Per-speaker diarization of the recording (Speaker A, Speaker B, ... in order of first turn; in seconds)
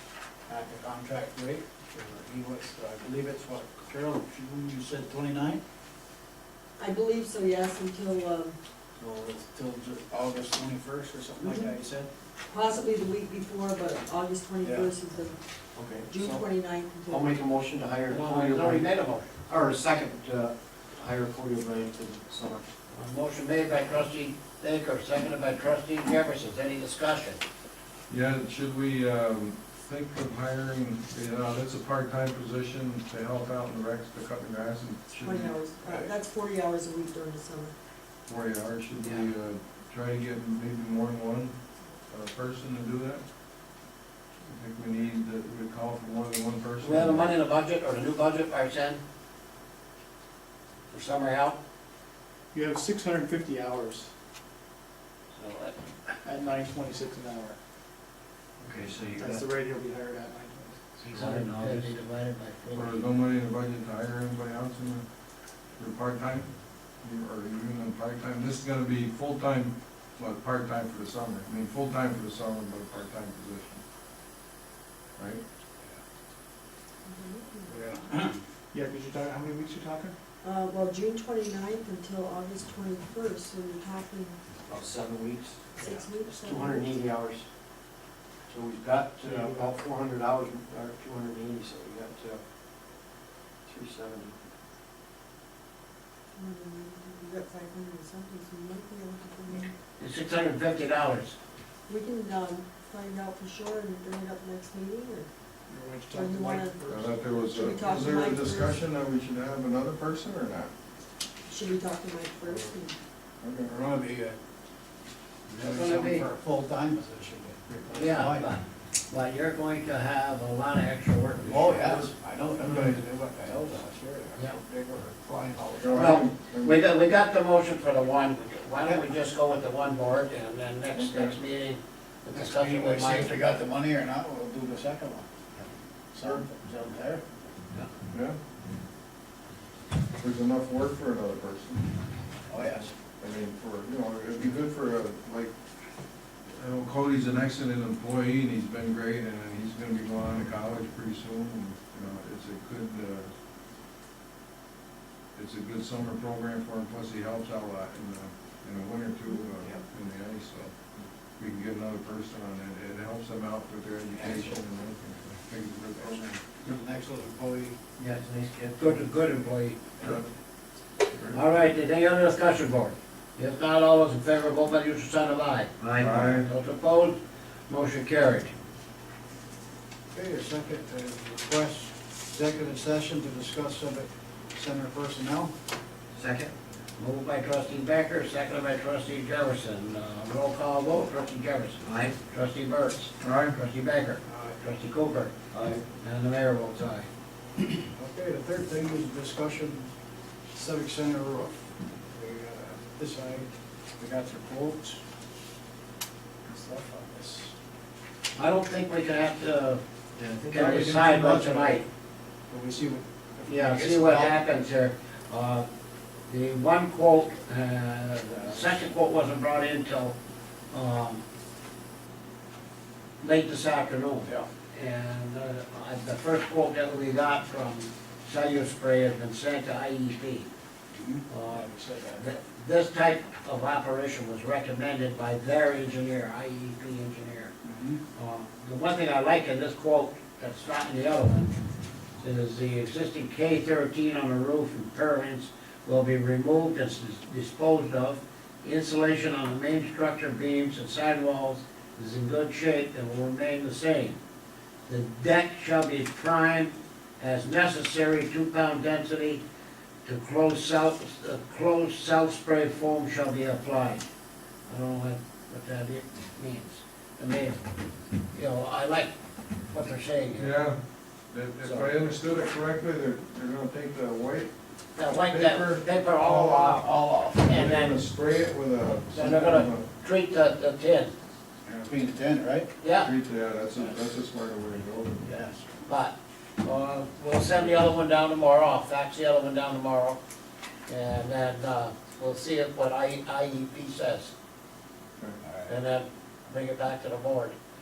Speaker A: 0.5-5.6, 9.0-12.1, 14.6-14.9, 77.7-78.4, 113.7-114.4, 115.6-118.5, 121.4-126.2, 132.3-135.3, 136.1-137.2, 142.5-142.9, 164.1-164.6, 166.1-167.8, 180.1-185.5, 194.2-194.6, 197.9-199.9, 200.5-205.0, 206.5-207.5, 210.2-211.8, 212.5-214.4, 218.3-218.8, 230.9-232.4, 237.6-238.0, 276.5-277.4, 281.6-282.7, 285.2-285.8, 295.4-295.7
Speaker B: 6.8-8.6, 11.4-11.7, 12.5-15.4, 16.1-17.3, 35.2-37.8, 77.0-77.8, 80.4-84.4, 85.8-87.0, 96.3-99.7, 101.9-105.3, 106.1-106.8, 107.5-108.8, 111.5-113.0
Speaker C: 15.8-16.4, 17.1-18.9, 19.5-22.7, 58.6-59.2, 61.0-61.6, 84.7-85.6, 86.4-87.5, 88.5-92.4, 93.7-94.3, 186.2-186.5, 191.9-192.2, 195.5-195.8
Speaker D: 18.1-19.3, 22.9-27.4, 39.0-39.3, 46.8-49.0, 50.9-51.6, 55.4-56.1, 61.0-63.1, 100.0-101.3, 115.5-116.3, 117.9-122.1, 125.9-133.4, 168.0-169.8, 171.3-177.2, 177.7-178.5, 187.0-195.3, 196.0-197.1, 208.4-209.8, 210.5-211.9, 213.5-215.7, 216.3-220.2, 220.7-221.2, 223.2-230.5, 231.3-237.5, 238.1-241.6, 242.2-254.2, 254.9-259.4, 260.1-264.0, 264.7-267.6, 268.3-269.1, 269.7-270.7, 271.6-271.9, 275.0-278.0, 278.8-281.1, 282.8-283.1, 285.8-290.2, 290.9-294.3, 295.7-297.6
Speaker E: 28.1-35.5, 38.3-41.6, 42.1-43.2, 44.4-47.3, 62.7-65.1, 65.8-73.8, 75.2-75.4, 106.9-110.7, 113.4-113.7, 122.6-123.0, 125.8-126.8, 130.9-131.4, 138.1-138.4, 140.2-141.8, 143.2-145.5, 146.5-153.3, 155.3-160.7, 161.4-166.4, 171.1-171.4, 176.0-176.5, 193.2-193.7, 270.4-274.5, 275.0-279.9, 283.0-285.3
Speaker F: 52.5-54.1, 56.2-57.6, 59.2-60.8, 78.7-80.2, 105.7-107.1